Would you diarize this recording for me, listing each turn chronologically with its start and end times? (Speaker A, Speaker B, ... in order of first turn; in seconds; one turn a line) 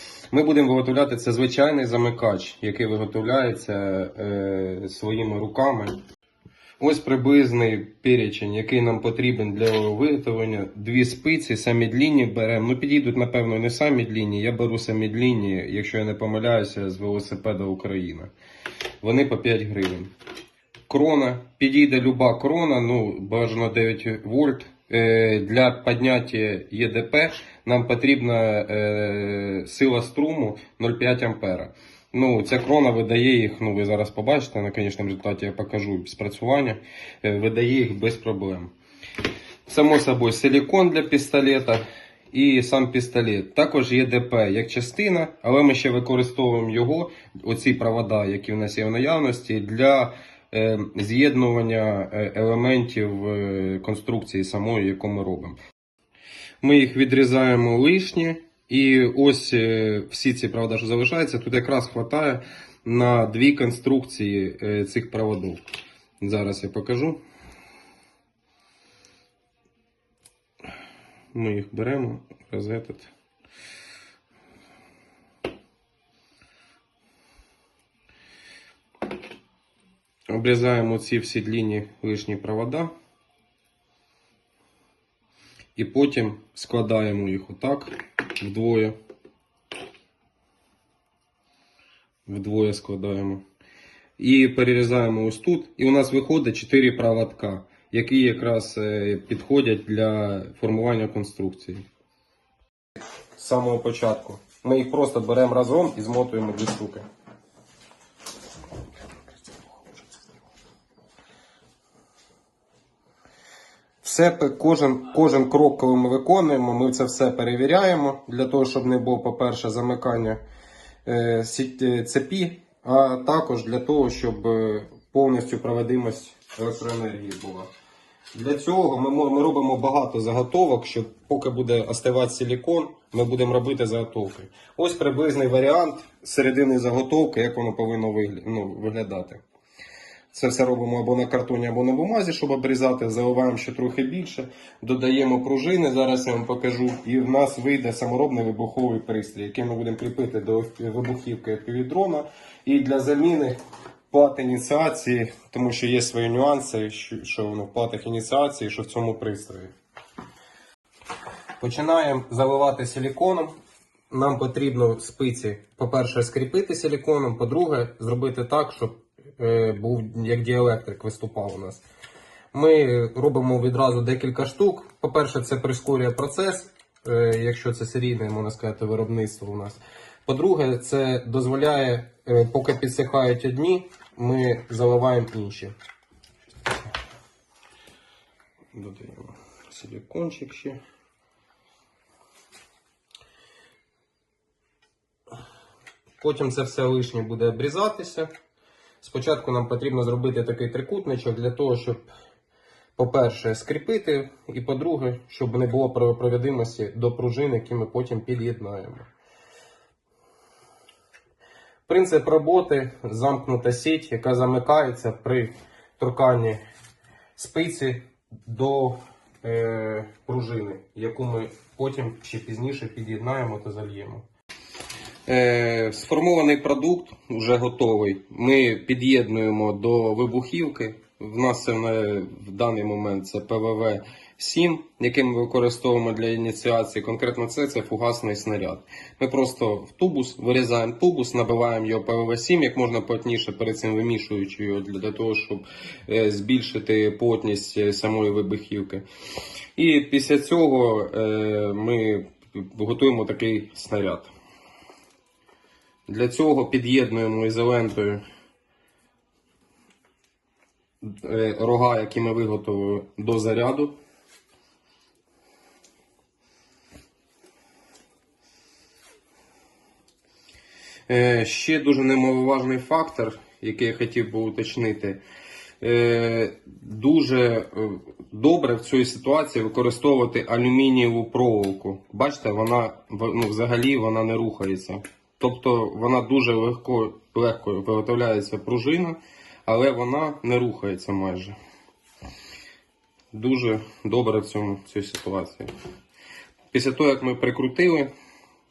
Speaker A: 0.3-6.0
Speaker A: 6.8-18.3
Speaker A: 19.0-20.1
Speaker A: 20.9-38.7
Speaker A: 39.7-55.6
Speaker A: 56.6-65.6
Speaker A: 66.2-67.2
Speaker A: 71.3-73.1
Speaker A: 80.3-82.9
Speaker A: 85.8-89.0
Speaker A: 92.3-93.4
Speaker A: 94.2-101.8
Speaker A: 103.3-107.0
Speaker A: 114.0-120.4
Speaker A: 121.0-127.7
Speaker A: 128.3-139.4
Speaker A: 140.3-153.6
Speaker A: 154.1-159.7
Speaker A: 161.6-163.5
Speaker A: 164.1-171.8
Speaker A: 172.5-185.7
Speaker A: 188.7-190.8
Speaker A: 196.2-198.3
Speaker A: 199.0-202.1
Speaker A: 203.0-209.1
Speaker A: 211.9-216.6
Speaker A: 217.3-224.2
Speaker A: 225.3-249.0
Speaker A: 249.8-254.3
Speaker A: 256.1-258.2
Speaker A: 261.0-263.9
Speaker A: 271.1-275.2
Speaker A: 275.8-291.6
Speaker A: 293.3-295.7
Speaker A: 296.7-298.1